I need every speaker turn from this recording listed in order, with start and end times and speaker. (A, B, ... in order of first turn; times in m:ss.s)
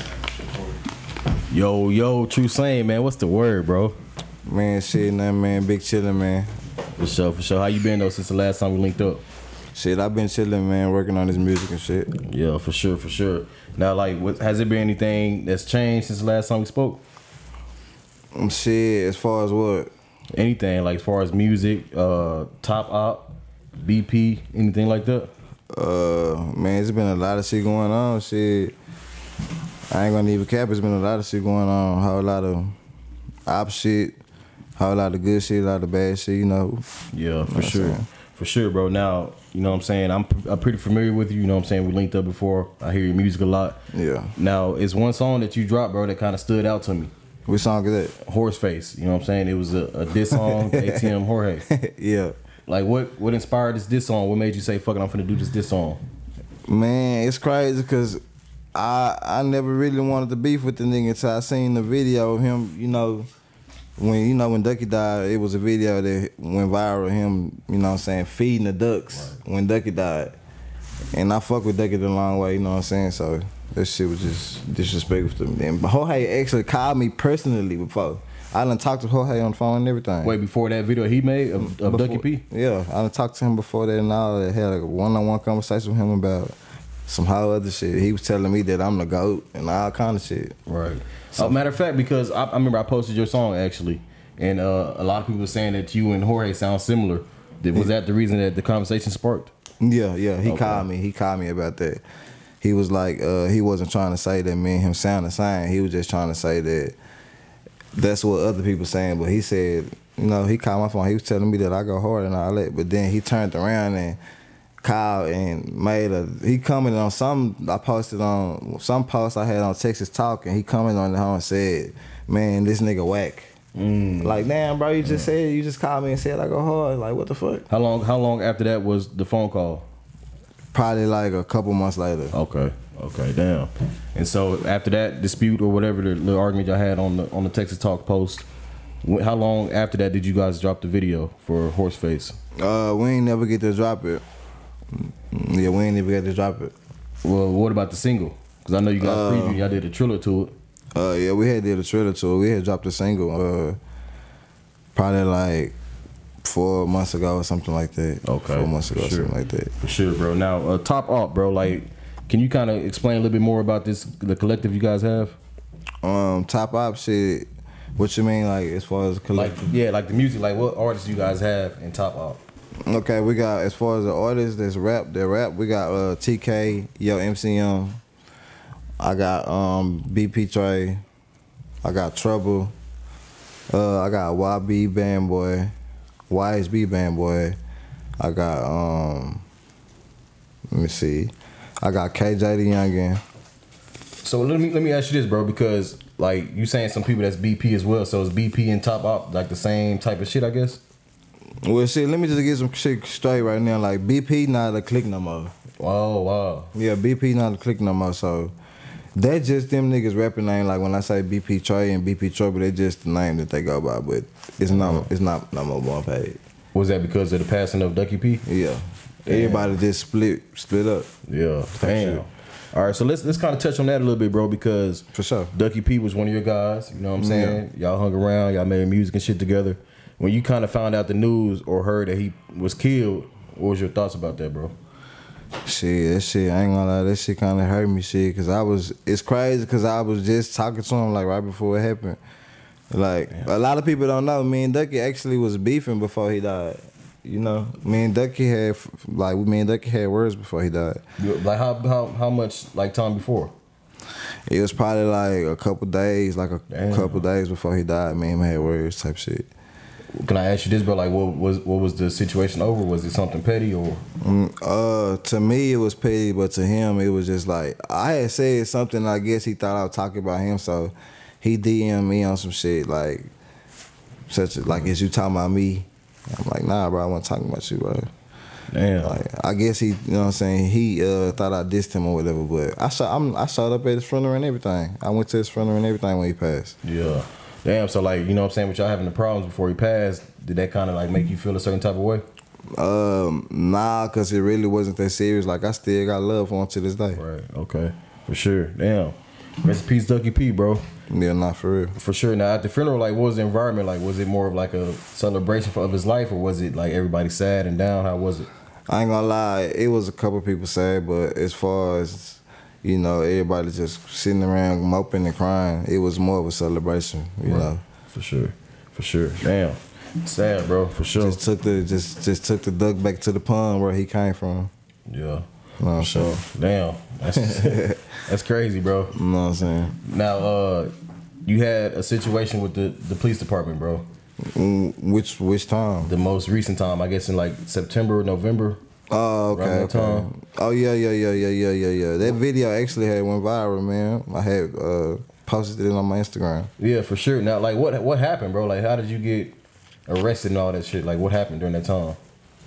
0:01.5-0:04.0 A
0:04.5-0:06.5 B
0:07.0-0:09.2 A
0:09.7-0:12.1 B
0:12.2-0:17.0 A
0:18.4-0:19.9 B
0:20.3-0:25.3 A
0:25.7-0:28.8 B
0:29.9-0:32.8 B
0:33.5-0:34.2 B
0:34.8-0:36.8 B
0:37.1-0:43.8 A
0:37.5-0:38.1 B
0:43.9-0:44.3 B
0:44.4-0:47.1 A
0:47.5-0:48.2 B
0:48.2-0:51.7 A
0:50.3-0:51.1 B
0:51.7-0:52.3 B
0:52.7-0:56.0 A
0:56.7-0:58.2 B
0:58.8-1:03.3 B
1:04.0-1:10.4 B
1:11.1-1:20.4 B
1:20.2-1:22.4 A
1:21.6-1:26.6 B
1:27.1-1:30.6 B
1:30.7-1:39.5 A
1:39.8-1:42.0 B
1:40.4-1:40.9 A
1:42.6-1:47.0 B
1:47.9-1:54.2 B
1:54.8-2:03.5 B
2:03.8-2:04.4 A
2:04.2-2:07.7 B
2:07.7-2:09.9 A
2:10.7-2:12.4 B
2:12.3-2:18.5 A
2:19.0-2:22.4 A
2:22.6-2:24.2 B
2:25.3-2:26.7 B
2:27.2-2:30.5 A
2:29.0-2:29.6 B
2:31.0-2:33.8 B
2:35.0-2:35.8 B
2:36.4-2:39.7 B
2:38.2-2:45.4 A
2:46.0-2:49.6 B
2:49.3-2:52.4 A
2:52.9-2:58.0 B
2:59.0-3:01.0 B
3:01.8-3:02.7 B
3:03.7-3:05.7 B
3:06.3-3:07.6 B
3:08.2-3:09.4 B
3:10.7-3:13.2 B
3:14.2-3:20.8 A
3:21.6-3:25.5 B
3:25.8-3:26.7 A
3:26.7-3:28.5 B
3:29.2-3:36.4 B
3:34.7-3:35.1 A
3:36.7-3:38.4 A
3:38.5-3:41.1 B
3:39.3-3:39.8 A
3:41.3-3:54.7 A
3:41.8-3:42.2 B
3:45.1-3:45.5 B
3:47.2-3:47.6 B
3:55.6-4:02.2 B
4:02.9-4:11.0 B
4:11.2-4:13.5 A
4:14.5-4:19.5 B
4:16.7-4:17.2 A
4:20.1-4:24.0 A
4:24.2-4:33.3 B
4:34.3-4:38.1 B
4:38.7-4:39.2 A
4:39.0-4:46.8 B
4:46.8-4:52.2 A
4:52.7-4:57.2 B
4:57.2-5:00.8 A
5:01.1-5:02.0 B
5:02.0-5:08.5 A
5:08.9-5:17.8 B
5:17.4-5:21.4 A
5:21.2-5:24.7 B
5:25.1-5:29.2 A
5:25.8-5:26.4 B
5:27.4-5:28.0 B
5:29.1-5:30.0 B
5:30.0-5:30.9 A
5:31.4-5:34.1 A
5:34.4-5:36.1 B
5:36.0-5:38.8 A
5:39.1-5:46.7 B
5:39.5-5:40.3 A
5:46.8-5:49.6 A
5:50.1-5:52.2 A